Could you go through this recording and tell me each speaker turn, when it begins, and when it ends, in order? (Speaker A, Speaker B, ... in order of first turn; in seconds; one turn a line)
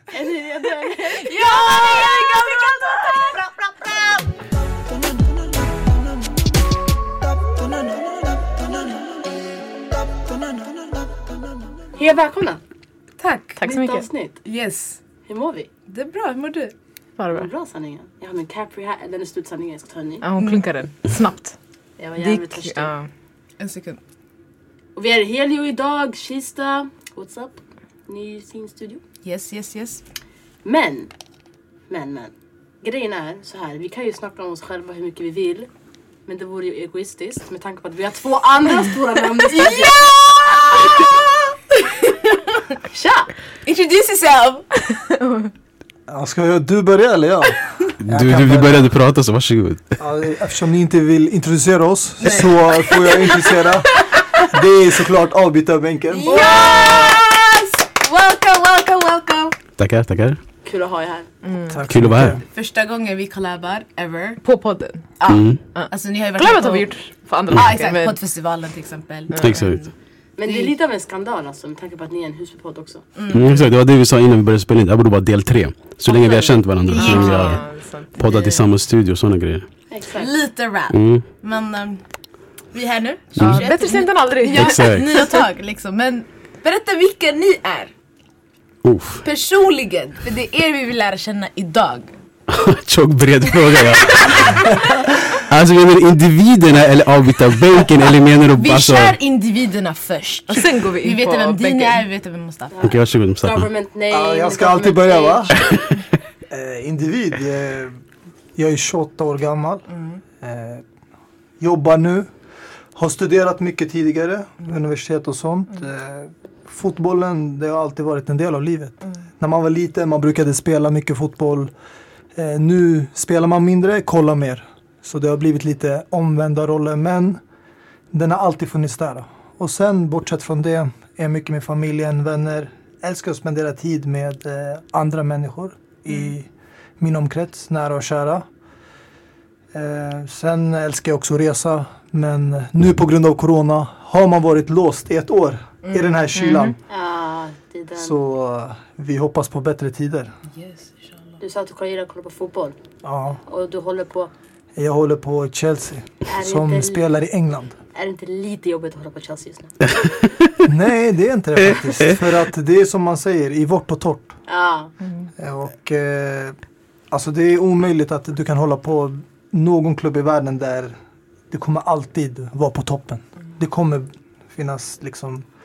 Speaker A: 0.1-3.0
Speaker B: 1.1-4.2
Speaker C: 1.4-2.4
Speaker A: 12.0-12.6
Speaker B: 13.2-13.6
Speaker C: 13.6-14.1
Speaker A: 13.6-14.4
Speaker B: 14.4-15.0
Speaker A: 15.3-15.7
Speaker B: 15.9-16.7
Speaker C: 17.2-17.5
Speaker A: 17.3-20.2
Speaker C: 20.2-21.6
Speaker B: 20.4-20.6
Speaker A: 22.0-22.9
Speaker C: 22.2-23.1
Speaker B: 23.6-24.0
Speaker A: 25.0-29.0
Speaker B: 29.2-30.0
Speaker A: 30.6-31.1
Speaker A: 31.9-35.7
Speaker A: 36.3-40.1
Speaker B: 39.5-41.3
Speaker A: 42.9-43.3
Speaker B: 43.6-44.9
Speaker C: 45.0-45.5
Speaker D: 46.1-48.9
Speaker E: 48.0-50.0
Speaker D: 50.0-56.4
Speaker B: 52.2-53.6
Speaker B: 56.1-59.6
Speaker C: 56.4-57.0
Speaker E: 59.8-60.4
Speaker A: 60.6-61.3
Speaker C: 61.4-61.9
Speaker D: 61.7-62.4
Speaker E: 61.9-62.4
Speaker B: 62.5-64.4
Speaker C: 64.4-65.1
Speaker B: 65.2-66.9
Speaker E: 65.3-65.6
Speaker C: 65.7-68.2
Speaker B: 67.5-69.9
Speaker C: 69.3-69.7
Speaker E: 69.4-69.8
Speaker A: 70.4-73.0
Speaker B: 70.5-70.8
Speaker B: 73.2-73.7
Speaker E: 73.3-77.6
Speaker A: 76.1-76.6
Speaker B: 76.9-77.7
Speaker C: 76.9-78.2
Speaker E: 78.2-79.7
Speaker B: 78.2-78.7
Speaker A: 79.9-80.3
Speaker B: 80.2-82.0
Speaker E: 80.9-81.2
Speaker B: 82.7-87.9
Speaker E: 83.4-83.6
Speaker C: 83.4-85.3
Speaker E: 84.5-85.3
Speaker E: 88.8-89.2
Speaker B: 89.2-92.1
Speaker E: 92.5-99.2
Speaker B: 93.7-94.5
Speaker B: 98.5-102.8
Speaker C: 100.5-102.0
Speaker A: 102.7-105.6
Speaker E: 102.8-103.7
Speaker D: 104.1-105.7
Speaker D: 106.5-108.0
Speaker D: 108.6-109.8
Speaker B: 109.9-110.2
Speaker D: 110.4-110.8
Speaker D: 111.6-112.3
Speaker D: 113.0-121.7
Speaker D: 122.3-127.4
Speaker D: 128.1-136.5
Speaker D: 137.0-138.5
Speaker D: 139.7-146.8
Speaker C: 146.3-146.8
Speaker A: 146.9-148.2
Speaker D: 148.0-150.3
Speaker B: 150.6-151.4
Speaker A: 151.4-152.8
Speaker D: 153.0-153.4
Speaker A: 153.5-154.3
Speaker D: 154.8-157.8
Speaker A: 156.3-157.1
Speaker A: 157.9-159.7
Speaker E: 159.9-160.6
Speaker D: 160.7-164.4
Speaker E: 161.6-162.1
Speaker A: 164.5-164.9
Speaker D: 165.4-166.6
Speaker D: 167.1-170.9
Speaker D: 171.5-175.4